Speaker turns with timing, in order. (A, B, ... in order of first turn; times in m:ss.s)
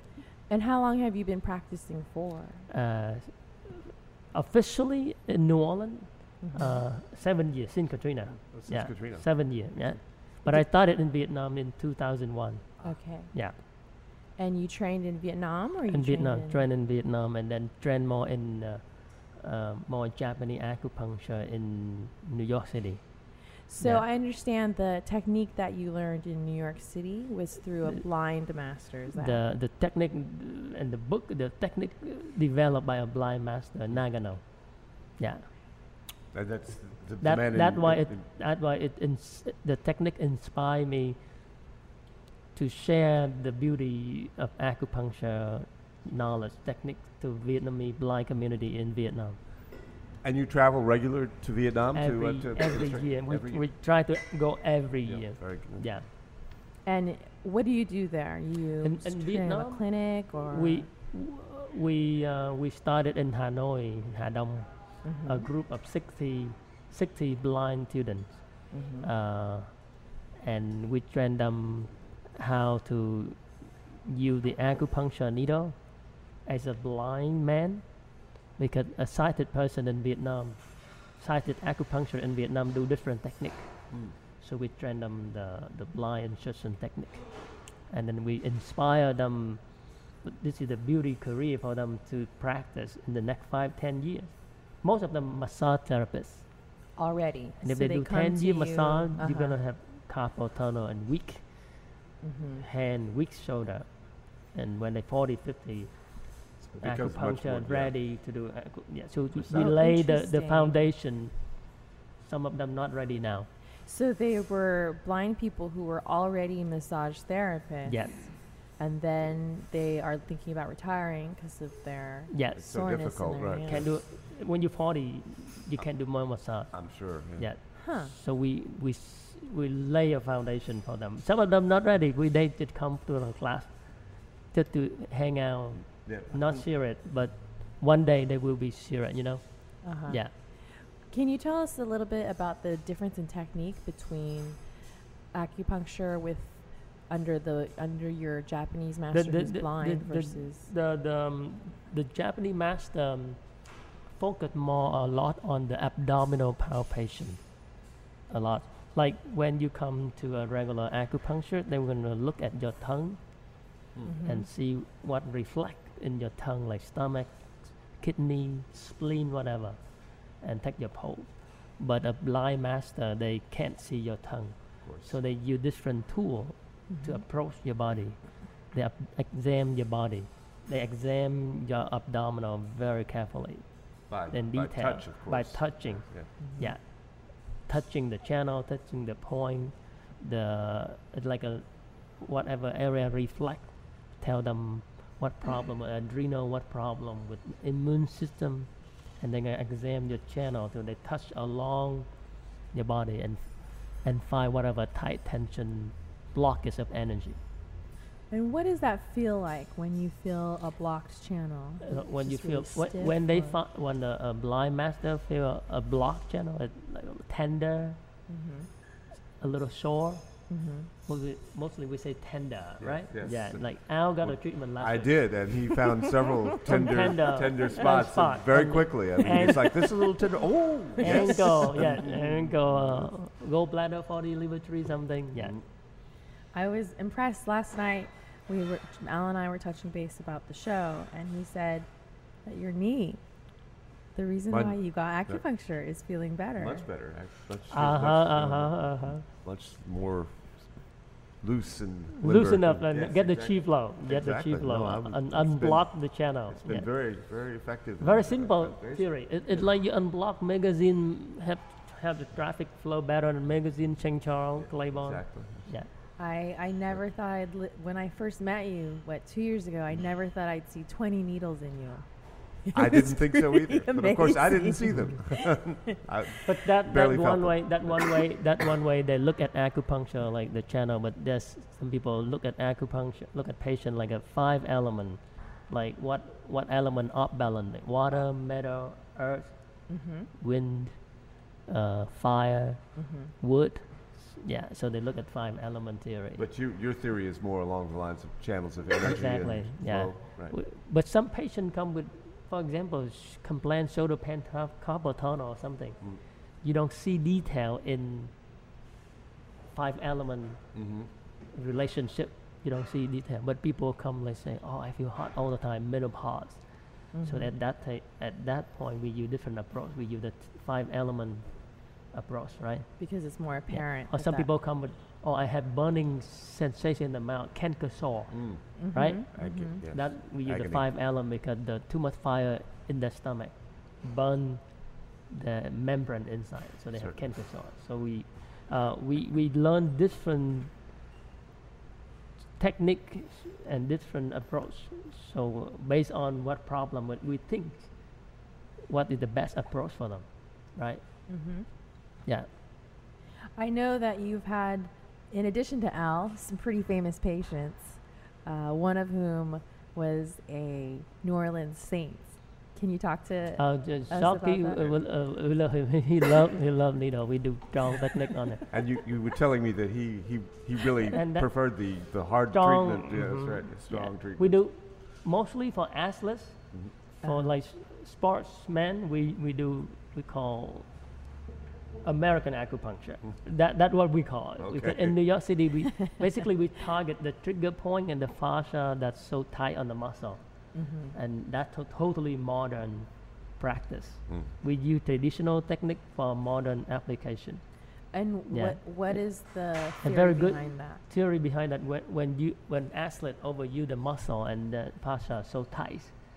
0:00.5-0:02.7 A
0:02.7-0:12.7 B
0:06.4-0:06.8 A
0:08.5-0:09.3 C
0:12.8-0:13.3 A
0:14.4-0:16.7 A
0:15.9-0:23.0 B
0:23.7-0:29.4 A
0:23.8-0:24.0 B
0:29.1-0:34.4 B
0:35.2-0:35.5 B
0:36.3-0:38.2 C
0:37.2-0:41.2 B
0:42.5-0:49.4 B
0:50.2-0:53.7 C
0:52.0-0:56.0 B
0:55.1-0:55.9 C
0:56.8-1:00.9 A
0:58.8-0:59.8 B
1:00.5-1:04.7 B
1:05.0-1:05.5 A
1:05.2-1:08.4 B
1:08.7-1:09.1 A
1:09.0-1:09.7 B
1:10.4-1:13.4 B
1:14.0-1:15.8 B
1:16.4-1:17.9 B
1:18.6-1:20.6 B
1:21.1-1:23.7 B
1:24.4-1:27.3 B
1:27.9-1:29.6 B
1:30.2-1:34.3 B
1:34.8-1:36.4 B
1:37.0-1:39.6 A
1:37.6-1:41.4 B
1:42.2-1:42.6 A
1:42.6-1:43.9 B
1:44.5-1:45.9 B
1:46.6-1:47.9 C
1:46.8-1:51.3 B
1:49.4-1:49.6 C
1:49.5-1:50.8 A
1:52.2-1:53.5 B
1:53.9-1:58.3 A
1:57.8-1:58.2 B
1:58.8-2:03.8 A
2:02.3-2:02.6 B
2:02.6-2:03.9 C
2:03.7-2:06.7 B
2:06.7-2:07.5 C
2:07.4-2:13.8 B
2:07.8-2:08.1 A
2:14.5-2:20.3 B
2:16.1-2:16.6 C
2:19.8-2:20.2 A
2:21.1-2:24.6 A
2:25.3-2:30.7 A
2:29.1-2:33.4 B
2:34.1-2:37.4 B
2:38.3-2:43.2 B
2:44.1-2:44.5 A
2:44.2-2:47.4 B
2:48.0-2:49.8 B
2:50.4-2:58.2 B
2:54.8-2:55.1 C
2:56.9-2:57.2 A
2:58.7-3:03.6 B
3:04.1-3:06.3 C
3:04.3-3:06.0 B
3:06.4-3:06.7 A
3:07.7-3:11.7 B
3:12.2-3:18.7 B
3:19.2-3:22.1 B
3:22.7-3:23.4 B
3:24.0-3:27.4 B
3:28.3-3:33.6 A
3:31.8-3:38.0 B
3:38.3-3:38.7 A
3:39.4-3:40.2 B
3:40.5-3:40.9 A
3:41.1-3:45.1 B
3:42.8-3:43.6 C
3:44.2-3:53.1 C
3:46.7-3:50.1 B
3:51.0-3:55.6 B
3:51.0-3:51.5 A
3:55.4-3:55.6 C
3:56.5-4:01.9 A
4:02.5-4:03.2 A
4:04.2-4:06.8 A
4:04.5-4:05.4 C
4:06.6-4:10.7 C
4:07.7-4:09.2 B
4:11.4-4:15.9 C
4:12.2-4:16.9 B
4:16.5-4:19.1 C
4:18.0-4:25.9 B
4:24.6-4:25.7 C
4:26.2-4:32.0 A
4:32.6-4:36.0 A
4:32.7-4:38.2 C
4:36.5-4:49.5 B
4:49.9-4:50.3 A
4:50.4-4:51.0 B
4:51.7-4:52.8 B
4:53.0-4:53.3 A
4:53.4-4:56.4 B
4:56.4-5:00.6 C
4:59.0-5:06.0 B
5:06.6-5:08.3 B
5:09.7-5:10.6 B
5:10.8-5:11.1 C
5:11.5-5:16.6 B
5:17.1-5:17.5 A
5:17.2-5:21.5 B
5:22.1-5:22.9 B
5:23.0-5:24.5 A
5:23.7-5:28.4 B
5:28.3-5:28.6 C
5:28.8-5:29.8 A
5:28.9-5:34.6 B
5:29.3-5:30.8 C
5:35.3-5:40.7 B
5:42.6-5:47.9 B
5:48.9-5:51.0 B
5:51.3-5:51.7 A
5:53.6-6:04.8 A
6:03.6-6:08.6 B
6:08.7-6:14.6 C
6:11.0-6:11.5 B
6:12.5-6:16.6 B
6:17.2-6:17.5 A
6:17.2-6:20.9 B
6:22.0-6:30.4 B
6:24.6-6:25.2 C
6:30.7-6:31.2 A
6:31.1-6:37.6 B
6:34.3-6:34.5 C
6:38.1-6:41.0 A
6:38.5-6:39.2 B
6:40.0-6:46.1 B